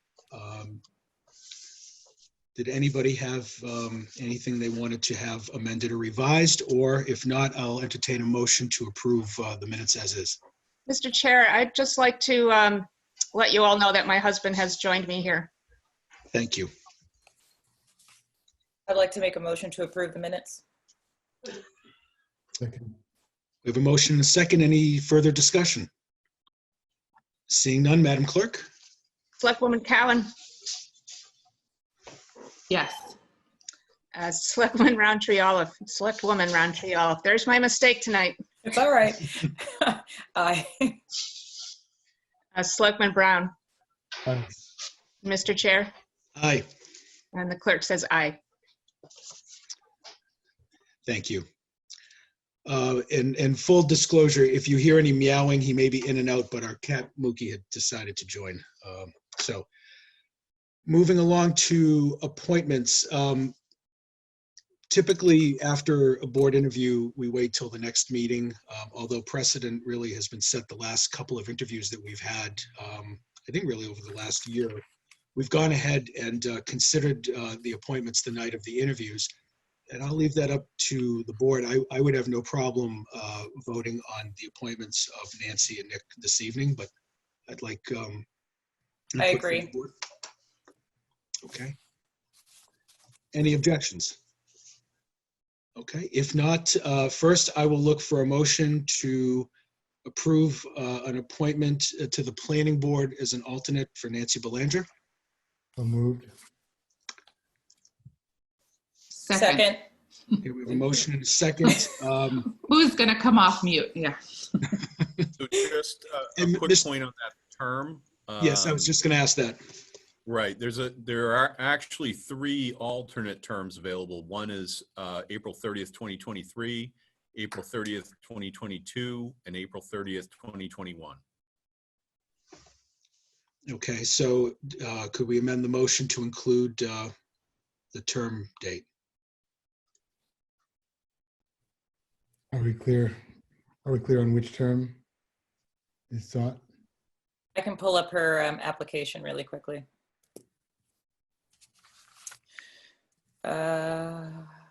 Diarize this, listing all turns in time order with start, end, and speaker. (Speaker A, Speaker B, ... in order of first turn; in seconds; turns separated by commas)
Speaker A: 0.3-0.8, Speaker A: 2.5-10.4, Speaker B: 10.9-15.5, Speaker A: 16.3-16.7, Speaker C: 18.9-20.6, Speaker D: 22.6-22.9, Speaker A: 23.6-25.9, Speaker A: 27.5-28.6, Speaker B: 29.4-30.3, Speaker E: 32.7-33.1, Speaker B: 34.1-38.4, Speaker C: 38.6-41.0, Speaker B: 42.5-43.5, Speaker B: 45.2-45.9, Speaker A: 46.4-46.7, Speaker B: 47.3-48.4, Speaker A: 51.0-51.5, Speaker A: 52.6-59.6, Speaker A: 60.9-63.5, Speaker A: 64.9-74.8, Speaker A: 75.3-79.3, Speaker A: 79.9-86.9, Speaker A: 87.5-88.2, Speaker A: 89.2-89.9, Speaker C: 89.2-89.7, Speaker A: 91.4-91.8, Speaker A: 93.3-94.2, Speaker A: 95.8-99.5, Speaker A: 100.0-104.9, Speaker D: 105.8-106.3, Speaker E: 109.2-109.8, Speaker C: 109.3-109.8, Speaker A: 110.4-112.5, Speaker E: 112.5-114.8, Speaker F: 115.3-118.9, Speaker A: 116.4-116.8, Speaker A: 118.4-119.6, Speaker F: 120.2-131.2, Speaker A: 133.7-137.1, Speaker A: 137.9-138.8, Speaker D: 142.5-143.2, Speaker D: 143.8-145.0, Speaker D: 146.1-146.6, Speaker C: 147.5-149.8, Speaker C: 153.4-154.5